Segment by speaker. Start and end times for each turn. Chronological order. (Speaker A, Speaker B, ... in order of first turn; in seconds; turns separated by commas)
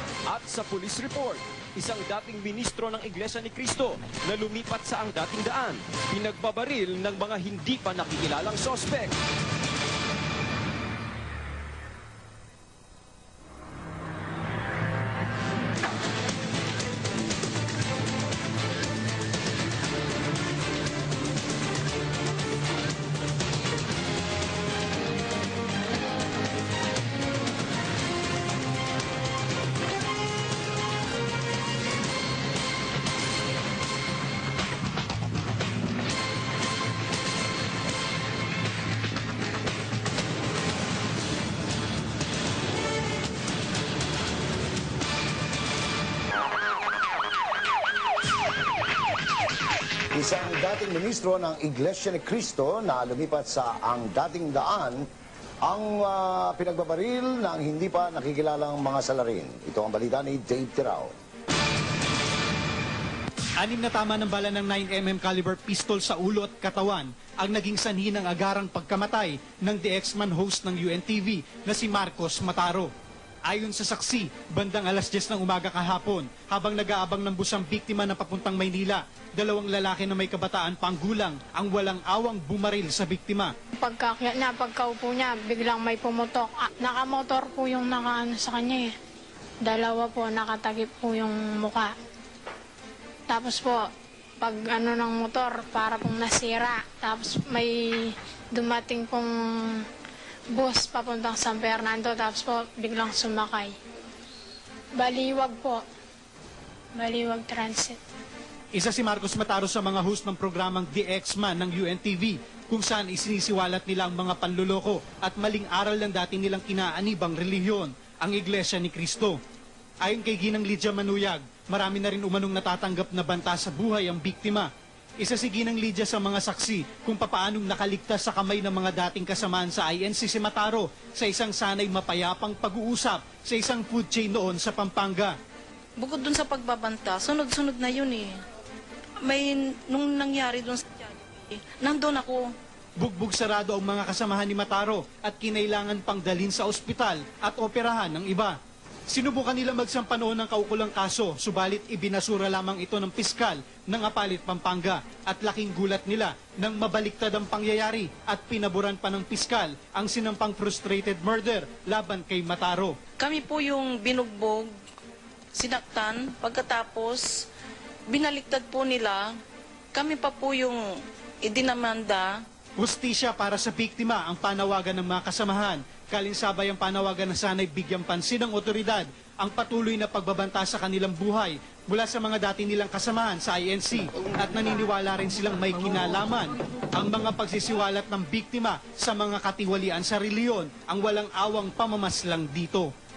Speaker A: 0.3-9.2, Speaker B: 50.1-55.1, Speaker B: 55.6-61.1, Speaker C: 63.6-72.9, Speaker C: 73.5-83.5, Speaker D: 83.8-88.9, Speaker D: 89.6-91.9, Speaker D: 93.3-93.9, Speaker D: 94.4-99.8, Speaker D: 100.5-103.7, Speaker D: 105.0-105.8, Speaker D: 106.9-108.0, Speaker C: 108.7-119.4, Speaker C: 120.0-135.3, Speaker E: 136.0-138.4, Speaker E: 139.2-142.5, Speaker C: 143.0-148.5, Speaker C: 149.1-163.0, Speaker E: 163.2-164.7, Speaker E: 165.5-167.3, Speaker E: 168.1-169.2, Speaker E: 169.9-170.8, Speaker E: 171.4-172.3, Speaker C: 172.8-192.9